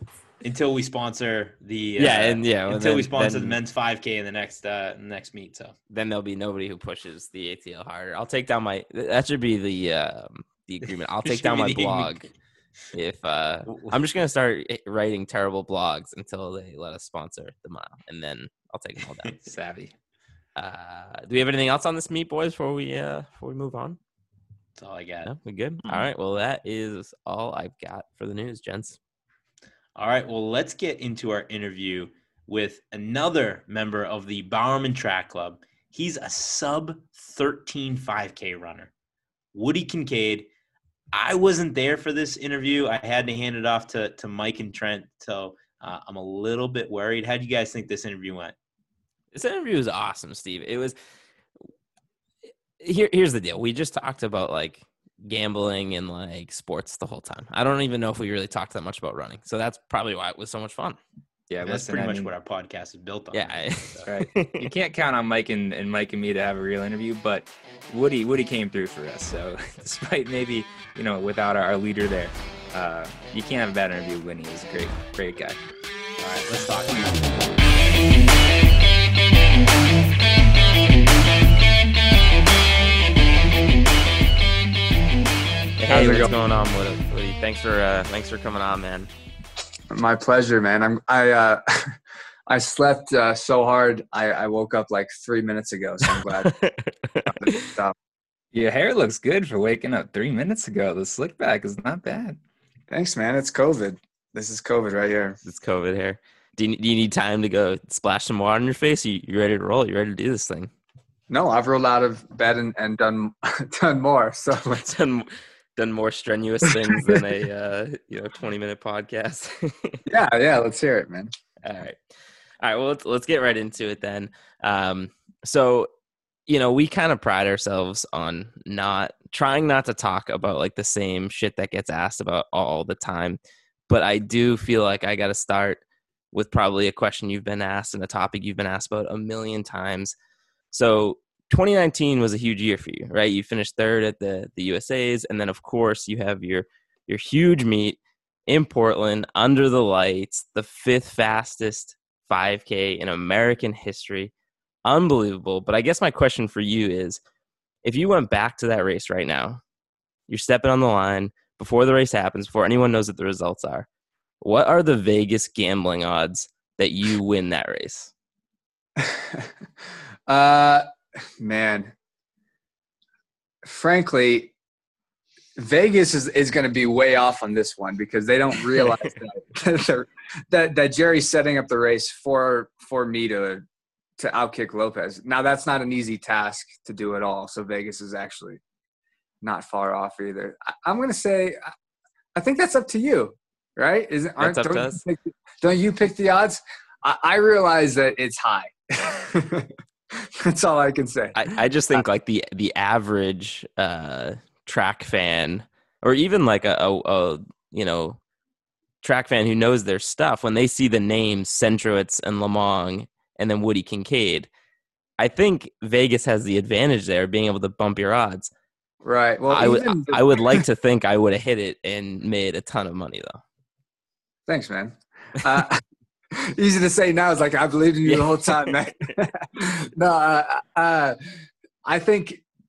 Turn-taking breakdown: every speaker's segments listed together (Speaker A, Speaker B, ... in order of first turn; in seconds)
Speaker A: 0.4-5.8, 11.3-12.3, 13.7-13.9, 24.8-25.3, 30.0-38.9, 39.5-40.5, 41.1-48.5, 61.6-64.1
Speaker B: 2.0-3.6, 5.9-12.3, 12.9-19.4, 20.6-24.0, 25.2-29.0, 49.3-51.0, 52.8-61.0, 63.3-64.7, 76.3-77.1, 85.8-89.1, 96.4-97.7, 105.4-110.7, 114.8-120.0, 121.6-122.0, 122.6-125.9, 126.5-133.4, 133.9-135.8, 136.3-140.1, 140.7-154.3, 154.8-157.2, 157.8-159.6, 160.3-163.9, 164.4-168.1, 194.4-195.0, 201.3-208.2, 209.0-214.5, 215.2-218.5, 219.5-223.4, 228.1-228.7
Speaker C: 19.5-19.9, 61.5-62.3, 64.1-75.6, 98.5-102.4
Speaker D: 85.9-86.3, 89.9-92.0, 92.5-96.5, 97.3-98.0, 102.9-105.4, 111.3-114.9, 116.9-117.2, 120.1-121.3, 169.0-169.5, 170.3-170.9, 171.4-171.9, 173.6-174.5, 175.6-183.6, 184.2-188.6, 189.4-191.7, 192.3-201.4, 219.0-220.6, 224.5-225.8, 226.3-231.3, 231.8-232.4